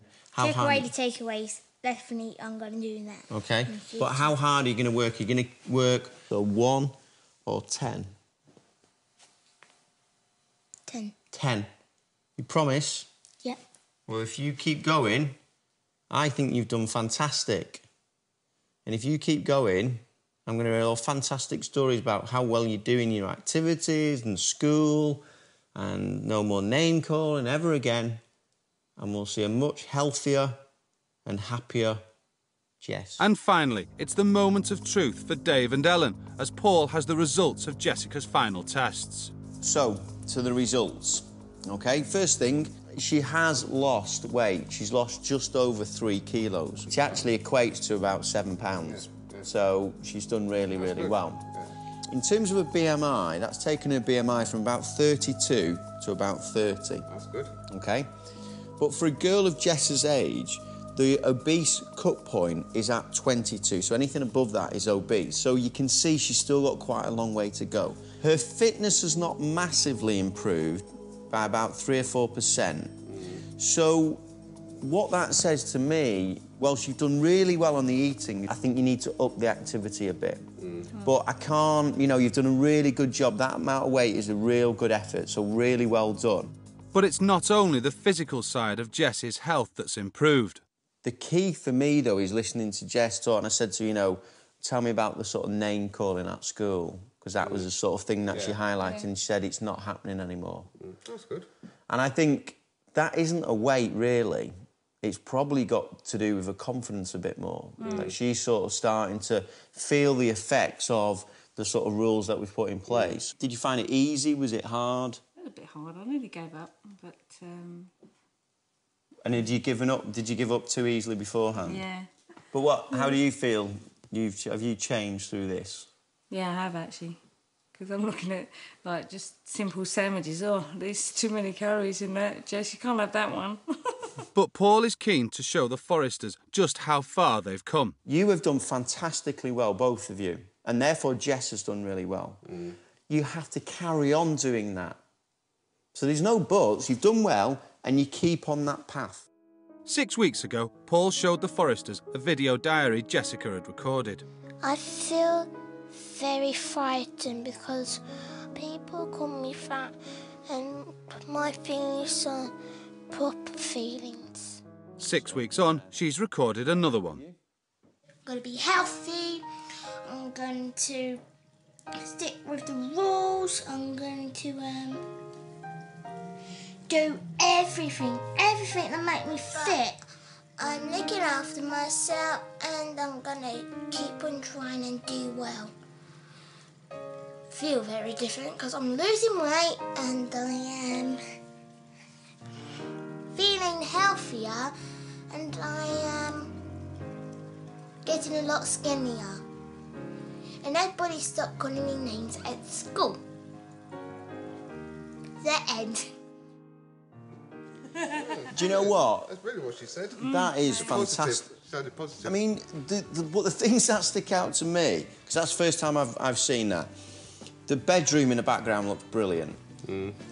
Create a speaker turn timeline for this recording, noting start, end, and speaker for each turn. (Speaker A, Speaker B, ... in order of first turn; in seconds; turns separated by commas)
Speaker A: 0.3-0.9, Speaker B: 0.4-4.3, Speaker A: 3.3-8.1, Speaker B: 10.9-11.2, Speaker A: 11.3-11.7, Speaker A: 12.4-13.1, Speaker A: 14.1-15.4, Speaker A: 16.1-17.8, Speaker A: 18.9-28.2, Speaker A: 29.0-30.6, Speaker A: 31.2-32.0, Speaker A: 32.8-33.2, Speaker C: 33.2-39.3, Speaker A: 39.6-51.5, Speaker D: 48.9-49.4, Speaker D: 50.8-51.6, Speaker A: 52.1-57.1, Speaker D: 57.1-57.5, Speaker A: 57.7-58.1, Speaker A: 58.8-73.0, Speaker A: 73.6-74.2, Speaker A: 74.8-86.5, Speaker D: 80.6-80.9, Speaker C: 86.9-90.6, Speaker A: 91.0-100.7, Speaker D: 98.3-98.6, Speaker D: 100.8-101.5, Speaker A: 101.9-115.2, Speaker E: 107.8-108.1, Speaker D: 107.8-108.1, Speaker E: 115.4-117.9, Speaker A: 119.2-121.8, Speaker E: 121.6-122.1, Speaker A: 122.5-125.9, Speaker E: 126.3-127.2, Speaker E: 127.7-134.1, Speaker C: 134.3-137.9, Speaker A: 138.0-142.5, Speaker A: 143.1-145.0, Speaker A: 145.9-149.3, Speaker C: 149.9-154.2, Speaker B: 154.6-158.0, Speaker B: 158.5-159.9, Speaker B: 160.5-162.5, Speaker B: 163.1-164.6, Speaker C: 165.0-167.2, Speaker A: 165.0-165.9, Speaker B: 168.2-169.4, Speaker B: 170.0-171.2, Speaker B: 171.9-175.0, Speaker B: 176.9-180.0, Speaker B: 180.6-185.7, Speaker B: 187.5-191.2, Speaker B: 193.3-194.7, Speaker B: 195.3-196.5, Speaker B: 198.0-199.4, Speaker B: 200.6-203.2, Speaker B: 205.4-206.1, Speaker D: 208.1-212.3, Speaker A: 208.5-209.3, Speaker A: 210.2-211.5, Speaker A: 212.2-216.9, Speaker A: 217.7-219.6, Speaker D: 219.8-220.2